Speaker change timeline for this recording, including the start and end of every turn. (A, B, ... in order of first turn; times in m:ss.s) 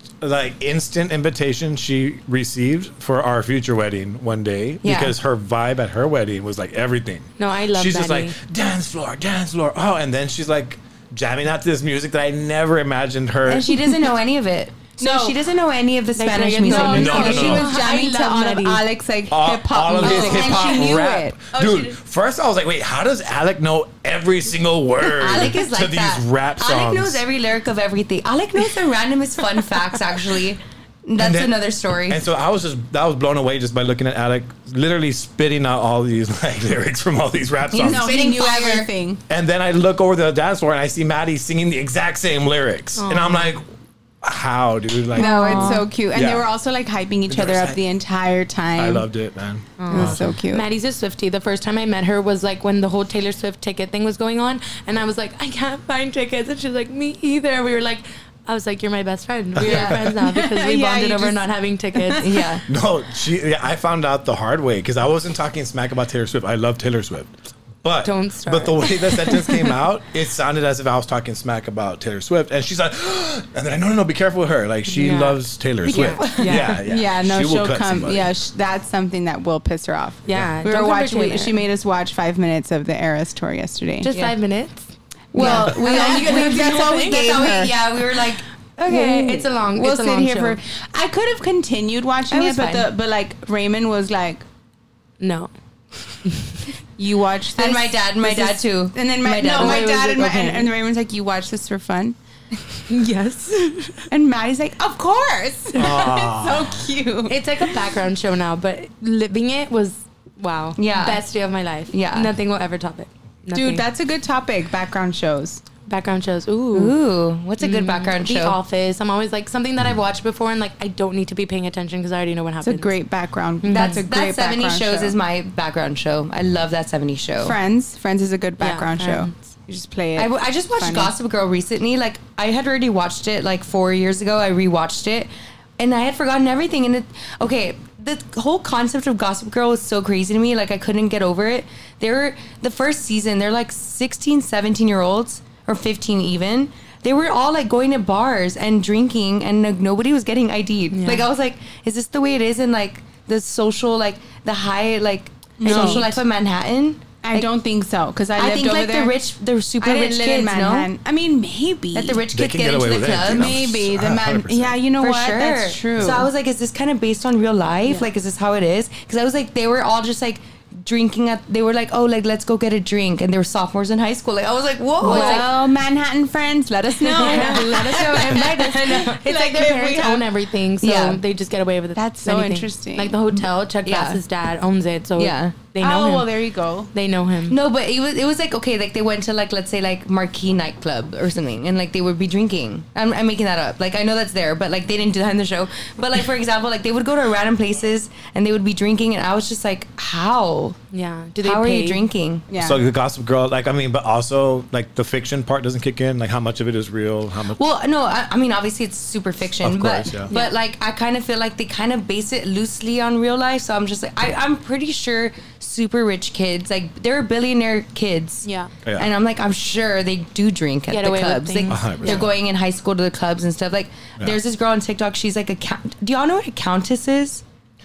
0:00.2-0:13.8 A
0:04.8-0:05.1 B
0:07.4-0:08.4 C
0:13.4-0:17.7 B
0:15.0-0:15.4 D
0:16.2-0:18.8 C
0:16.6-0:21.9 D
0:16.8-0:17.6 A
0:19.3-0:27.2 A
0:20.0-0:20.8 B
0:20.0-0:21.0 C
0:25.0-0:32.2 B
0:31.2-0:38.1 A
0:37.7-0:38.9 B
0:37.8-0:39.2 D
0:39.3-0:43.6 A
0:43.0-0:43.5 C
0:44.2-0:46.4 A
0:45.1-0:45.9 B
0:45.1-0:49.1 D
0:47.3-0:47.8 A
0:48.8-0:50.4 A
0:49.8-1:02.4 C
0:49.9-0:50.6 D
0:59.6-1:00.1 A
0:59.6-0:59.9 B
1:00.0-1:02.3 D
1:02.2-1:02.6 B
1:02.7-1:18.3 A
1:08.0-1:09.7 C
1:14.9-1:16.8 C
1:15.9-1:24.3 D
1:16.0-1:16.5 B
1:20.2-1:21.6 C
1:24.0-1:27.4 C
1:25.3-1:27.7 D
1:25.3-1:29.1 B
1:28.8-1:30.6 C
1:28.9-1:34.4 D
1:32.3-1:32.9 B
1:35.2-1:35.5 C
1:36.2-1:36.6 C
1:37.0-1:42.2 D
1:37.6-1:40.1 B
1:39.4-1:40.7 C
1:42.9-1:44.1 C
1:44.1-1:47.4 D
1:45.7-1:46.9 A
1:47.3-1:53.8 C
1:50.8-1:51.2 B
1:51.9-1:52.3 B
1:53.5-1:55.6 D
1:55.9-1:57.0 C
1:56.7-1:58.6 B
1:57.6-2:02.9 C
2:02.6-2:05.1 D
2:03.6-2:04.0 C
2:03.7-2:07.6 B
2:07.4-2:11.1 D
2:08.6-2:09.3 C
2:10.2-2:37.5 B
2:30.9-2:31.2 C
2:35.6-2:36.2 D
2:35.6-2:36.1 C
2:37.2-2:39.2 D
2:38.4-2:40.9 B
2:39.8-2:42.2 D
2:41.9-2:43.6 B
2:42.3-2:44.8 A
2:43.2-2:46.3 D
2:45.0-2:55.5 B
2:55.0-2:55.4 C
2:55.0-3:00.3 D
2:57.0-3:06.3 C
2:57.1-2:59.2 B
3:00.8-3:01.2 B
3:02.0-3:03.2 D
3:03.8-3:04.2 B
3:05.2-3:05.6 B
3:05.8-3:06.9 D
3:06.9-3:07.6 C
3:07.5-3:20.8 B
3:20.9-3:22.0 C
3:21.4-3:22.4 B
3:22.5-3:22.8 D
3:22.6-3:27.6 A
3:27.6-3:47.4 B
3:29.6-3:30.3 A
3:30.3-3:30.6 C
3:38.4-3:38.7 C
3:40.9-3:42.2 C
3:41.7-3:42.3 A